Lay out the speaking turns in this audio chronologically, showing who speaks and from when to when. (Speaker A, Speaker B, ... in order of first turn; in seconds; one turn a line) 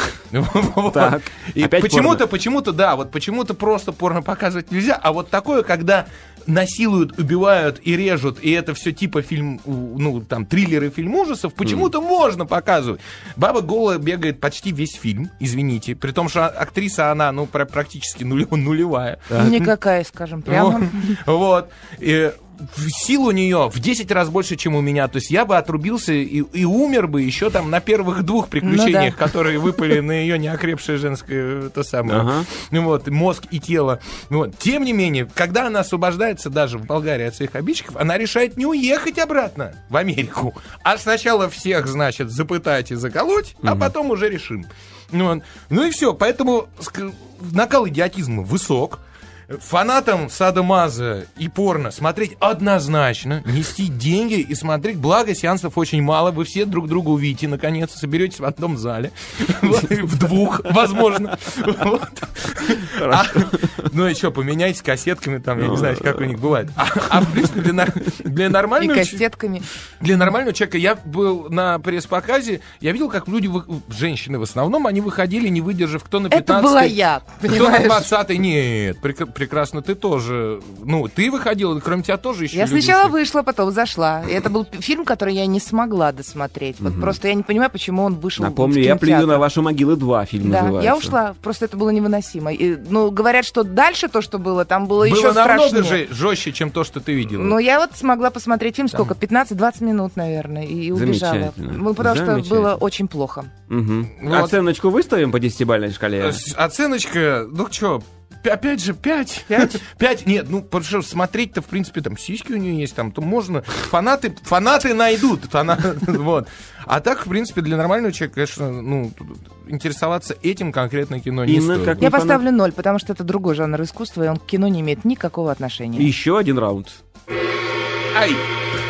Speaker A: 0.3-19.7
Speaker B: 0.9-2.2
Speaker B: 11.6-11.9
Speaker B: 19.3-19.6
Speaker C: 19.4-21.2
Speaker A: 20.5-69.2
Speaker C: 28.6-29.1
Speaker B: 32.0-32.5
Speaker B: 43.6-43.9
Speaker B: 62.8-63.8
Speaker B: 65.6-66.4
Speaker B: 67.1-67.5
Speaker C: 68.8-69.6
Speaker A: 70.0-83.1
Speaker C: 76.3-78.0
Speaker C: 82.5-89.4
Speaker B: 86.8-87.2
Speaker B: 88.3-91.1
Speaker C: 90.4-96.0
Speaker A: 95.0-97.6
Speaker C: 97.3-103.5
Speaker B: 100.9-102.8
Speaker B: 103.7-106.4
Speaker A: 104.2-104.5
Speaker A: 106.2-122.0
Speaker B: 121.5-122.4
Speaker C: 122.0-126.1
Speaker B: 125.9-127.0
Speaker A: 128.1-128.4